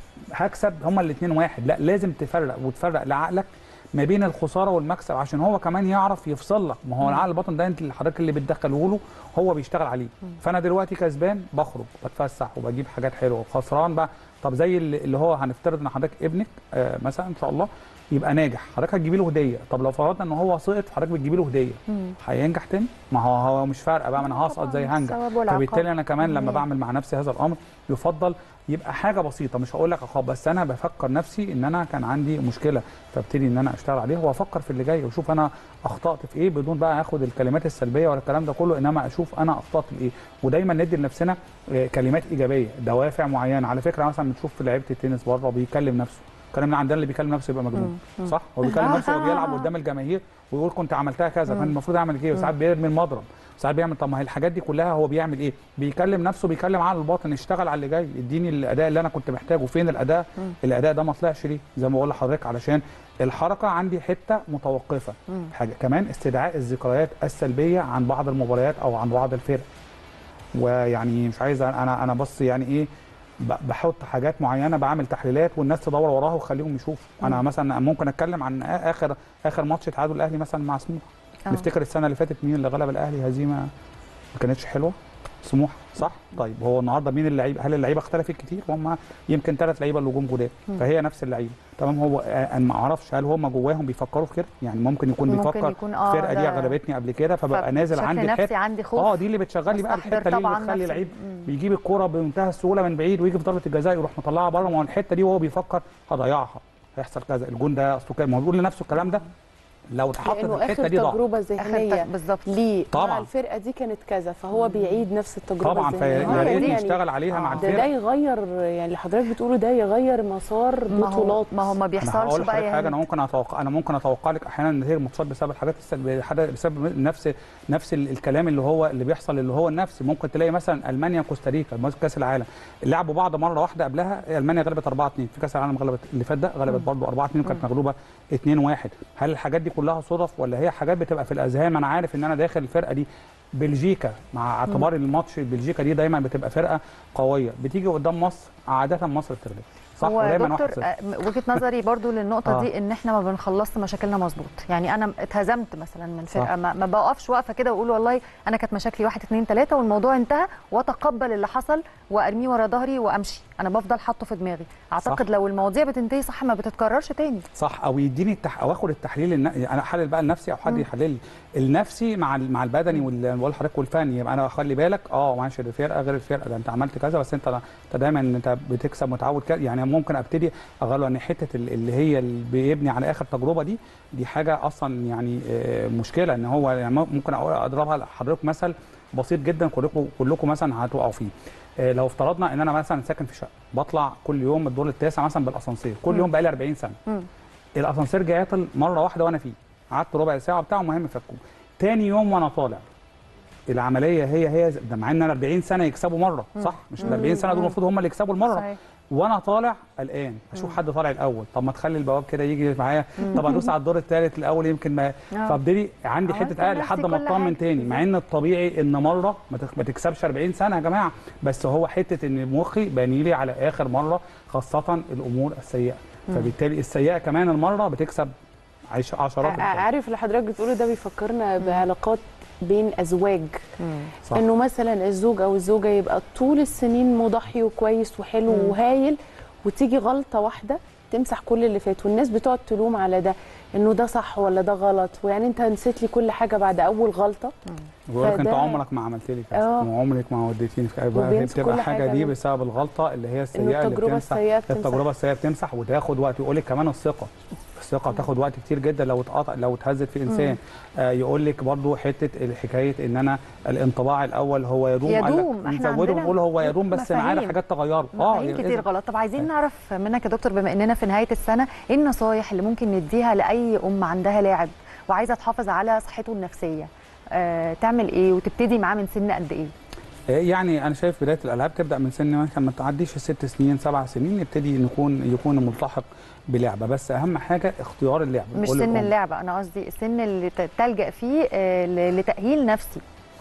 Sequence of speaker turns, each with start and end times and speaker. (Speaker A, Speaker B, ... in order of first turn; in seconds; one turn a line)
Speaker A: 0.3-69.7
Speaker B: 24.2-26.6
Speaker B: 47.8-49.7
Speaker A: 70.5-72.9
Speaker A: 73.4-83.7
Speaker A: 84.3-109.3
Speaker B: 95.3-96.8
Speaker B: 97.5-99.2
Speaker B: 99.7-101.5
Speaker A: 109.9-111.2
Speaker C: 110.2-117.0
Speaker B: 111.6-112.5
Speaker A: 112.9-113.3
Speaker A: 115.6-117.9
Speaker B: 116.1-117.8
Speaker C: 117.5-121.5
Speaker B: 120.9-123.0
Speaker A: 122.0-150.9
Speaker B: 150.0-167.5
Speaker A: 167.6-197.0
Speaker A: 197.8-202.9
Speaker A: 203.7-228.3
Speaker B: 206.6-207.8
Speaker B: 208.5-208.8
Speaker B: 213.2-213.6
Speaker B: 215.3-215.6
Speaker B: 216.3-218.0
Speaker A: 228.9-229.9
Speaker C: 229.4-233.7
Speaker B: 233.8-234.1
Speaker C: 234.3-247.6
Speaker B: 238.5-238.8
Speaker A: 248.1-268.8
Speaker C: 248.2-248.8
Speaker C: 249.5-249.9
Speaker C: 251.1-252.3
Speaker C: 253.5-255.1
Speaker B: 260.3-260.6
Speaker B: 265.1-267.6
Speaker B: 268.1-279.7
Speaker A: 280.3-289.1
Speaker B: 288.6-293.0